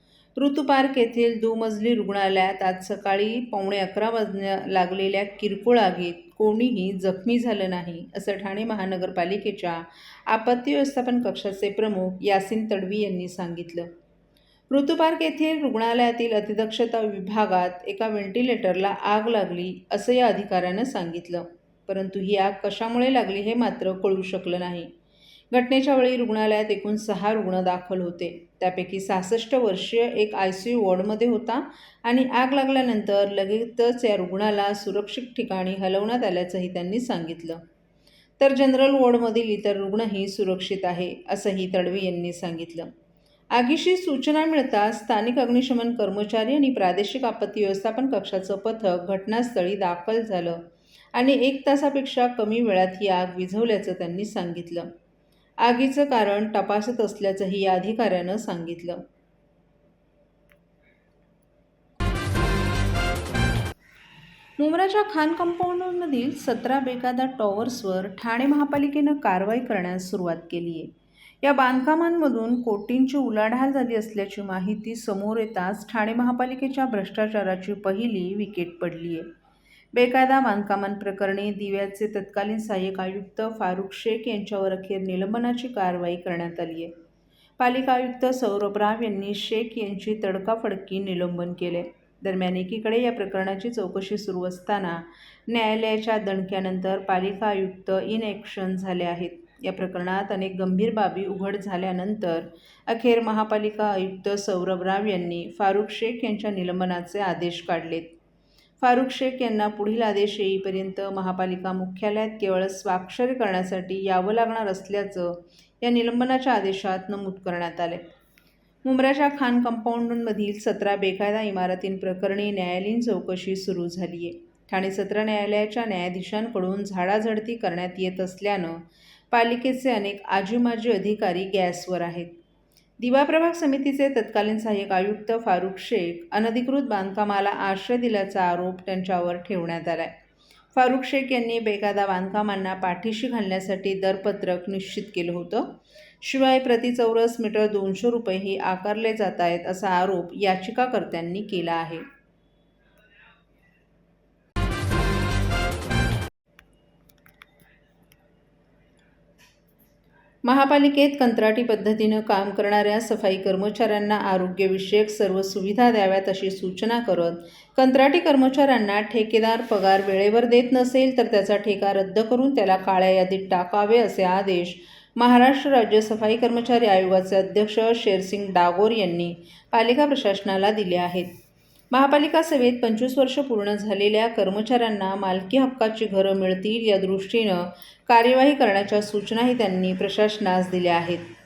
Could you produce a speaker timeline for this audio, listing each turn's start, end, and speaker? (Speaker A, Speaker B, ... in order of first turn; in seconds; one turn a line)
Speaker A: 0.4-13.9
Speaker A: 14.7-24.9
Speaker A: 25.5-37.6
Speaker A: 38.4-42.9
Speaker A: 43.5-50.6
Speaker A: 51.1-54.9
Speaker A: 55.6-59.0
Speaker A: 64.6-79.3
Speaker A: 79.9-86.9
Speaker A: 87.6-108.1
Speaker A: 108.8-118.0
Speaker A: 118.8-132.3
Speaker A: 133.0-140.2
Speaker A: 140.7-152.0
Speaker A: 160.4-181.3
Speaker A: 181.9-191.3